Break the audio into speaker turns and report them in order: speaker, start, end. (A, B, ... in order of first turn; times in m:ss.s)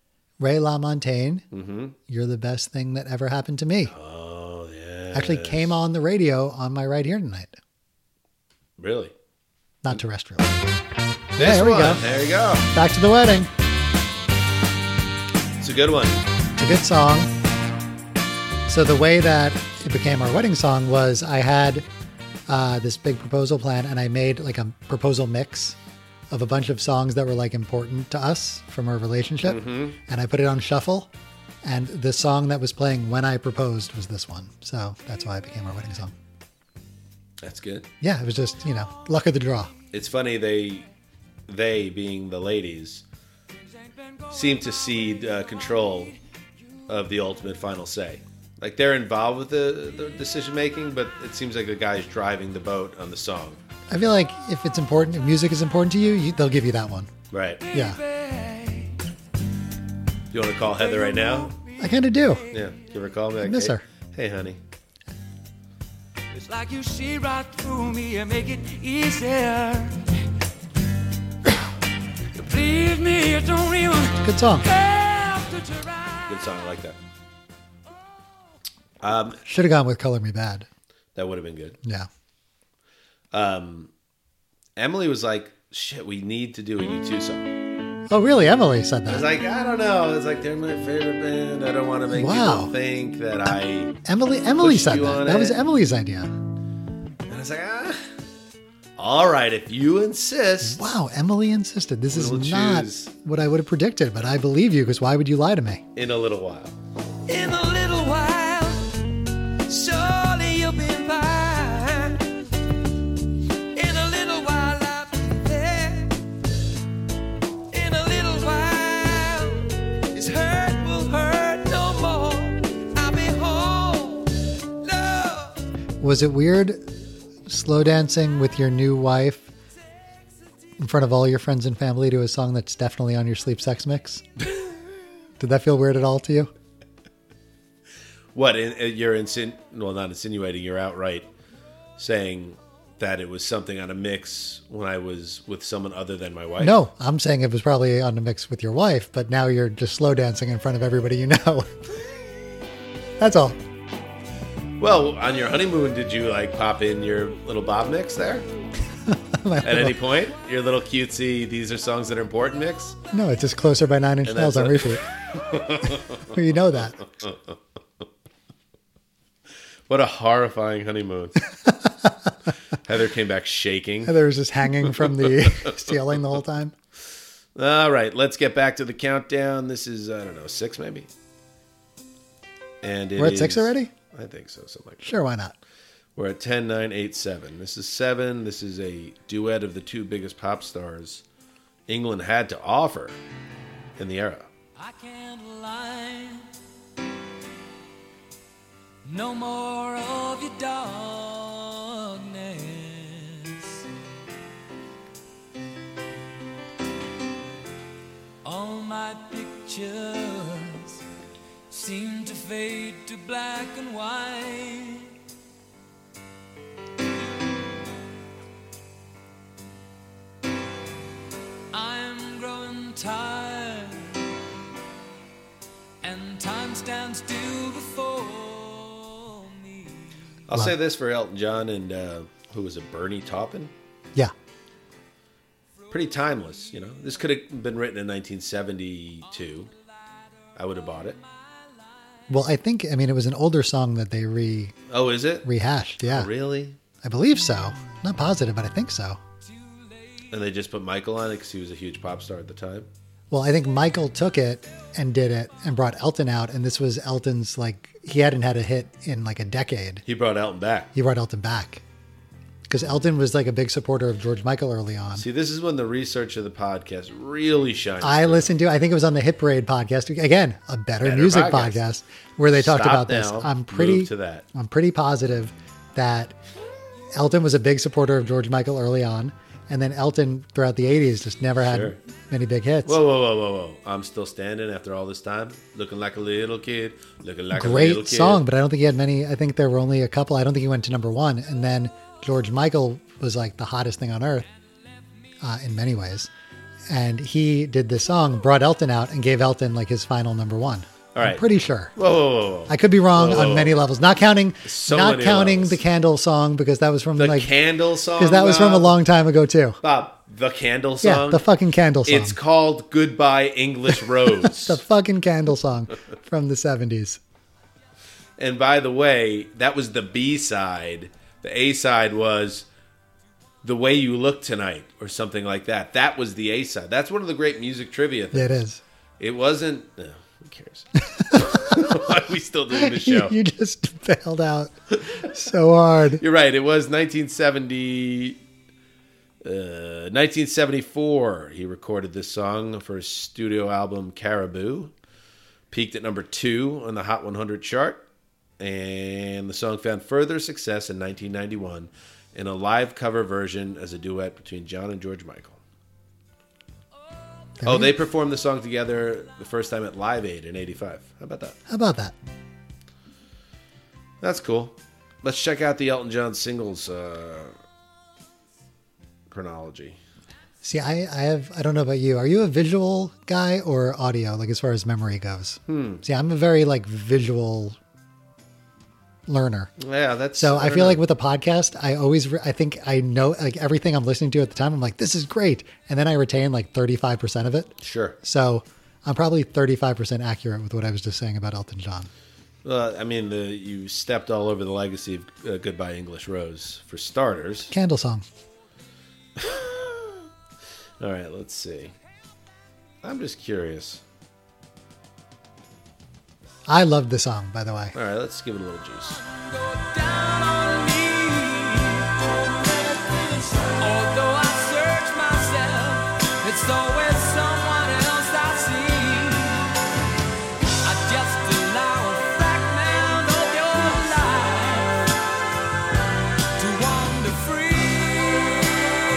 0:00.4-0:01.4 A
0:01.5-0:02.0 B
0:02.1-0:03.9 A
0:03.9-0:05.7 B
0:05.1-0:07.6 A
0:08.8-0:09.1 B
0:09.8-0:10.7 A
0:11.4-0:12.0 A
0:11.4-0:12.7 B
0:12.7-0:13.5 A
0:15.6-0:16.2 B
0:16.6-0:17.3 A
0:18.7-0:21.8 A
0:22.5-0:25.8 A
0:26.3-0:31.1 A
0:29.4-0:30.0 B
0:31.6-0:36.1 A
0:37.4-0:37.9 B
0:38.0-0:39.7 A
0:39.9-0:40.9 B
0:41.5-0:43.0 B
0:44.3-0:46.1 B
0:46.9-0:53.6 B
0:53.9-0:57.1 A
0:57.3-0:57.6 B
0:57.6-0:59.0 C
0:57.7-0:58.0 A
1:00.3-1:01.5 B
1:00.9-1:02.4 C
1:01.8-1:02.4 A
1:02.5-1:04.6 B
1:03.4-1:03.8 A
1:06.3-1:10.0 C
1:12.3-1:16.3 C
1:14.2-1:14.7 A
1:16.3-1:17.0 B
1:19.0-1:19.4 B
1:19.4-1:20.7 A
1:21.1-1:21.8 B
1:23.3-1:23.9 B
1:24.8-1:27.5 B
1:28.1-1:29.3 A
1:29.1-1:34.0 B
1:32.1-1:32.7 A
1:34.0-1:36.3 A
1:34.6-1:35.6 B
1:37.3-1:38.0 B
1:39.0-1:40.8 B
1:40.6-1:45.8 A
1:42.1-1:43.1 B
1:45.9-1:46.7 B
1:47.3-1:48.9 C
1:49.7-1:52.3 C
1:53.7-1:56.2 C
1:57.7-2:05.6 C
2:06.0-2:06.9 A
2:07.4-2:09.5 A
2:10.8-2:14.2 A
2:15.4-2:16.5 A
2:18.3-2:21.3 B
2:22.0-2:26.8 B
2:26.6-2:31.7 A
2:33.2-2:33.6 A
2:34.8-2:38.5 B
2:39.1-2:40.0 A
2:39.6-2:43.0 B
2:43.1-2:45.0 A
2:44.2-2:46.3 B
2:46.3-2:47.0 A
2:49.9-2:51.4 B
2:51.6-2:52.1 A
2:52.8-2:54.2 B
2:54.0-2:56.7 A
2:54.9-2:55.7 B
2:57.6-3:01.1 B
3:02.8-3:05.0 B
3:03.2-3:03.9 A
3:05.0-3:05.6 A
3:06.2-3:11.2 B
3:11.9-3:13.2 B
3:14.0-3:14.5 B
3:14.8-3:16.5 C
3:19.0-3:23.8 C
3:28.4-3:31.0 C
3:31.7-3:35.1 C
3:41.7-3:44.2 C
3:46.0-3:50.1 C
3:50.5-3:53.7 B
3:55.9-3:59.7 B
4:00.6-4:01.2 B
4:02.3-4:04.7 A
4:04.9-4:05.5 B
4:05.4-4:06.3 A
4:06.0-4:06.8 B
4:07.0-4:09.2 A
4:09.5-4:09.8 C
4:10.3-4:12.9 B
4:13.3-4:20.0 A
4:20.0-4:20.9 B
4:20.9-4:21.8 A
4:22.7-4:25.2 A
4:25.1-4:28.5 B
4:28.0-4:36.3 A
4:31.0-4:31.8 B
4:32.5-4:34.4 B
4:37.1-4:43.0 A
4:41.6-4:42.0 B
4:42.8-4:48.4 B
4:47.5-4:54.5 A
4:55.4-4:56.3 A
4:56.9-5:01.9 A
5:01.1-5:01.4 B
5:01.9-5:03.8 B
5:02.7-5:07.5 A
5:04.6-5:05.8 B
5:07.2-5:09.0 B
5:08.2-5:09.8 A
5:09.8-5:11.4 B
5:11.0-5:12.4 A
5:12.0-5:14.8 B
5:14.2-5:17.2 A
5:18.4-5:22.6 B
5:23.6-5:28.6 B
5:28.3-5:28.8 A
5:29.2-5:33.4 B
5:31.1-5:32.0 A
5:32.7-5:36.2 A
5:36.2-5:38.4 B
5:39.4-5:44.9 B
5:45.7-5:48.0 B
5:48.6-5:55.6 B
5:57.6-5:57.9 A
5:57.6-6:01.6 B
6:01.7-6:02.1 A
6:04.2-6:07.5 B
6:09.3-6:10.0 B
6:10.6-6:17.8 A
6:15.7-6:16.0 B
6:19.3-6:19.7 A
6:19.8-6:21.0 B
6:20.3-6:32.1 A
6:27.8-6:28.2 B
6:32.6-6:37.7 B
6:37.7-6:38.2 A
6:39.4-6:40.2 B
6:41.0-6:41.9 B
6:43.0-6:44.0 B
6:46.7-6:47.9 A
6:47.9-6:49.2 B
6:49.3-6:59.7 C
7:00.8-7:05.0 C
7:06.6-7:08.8 C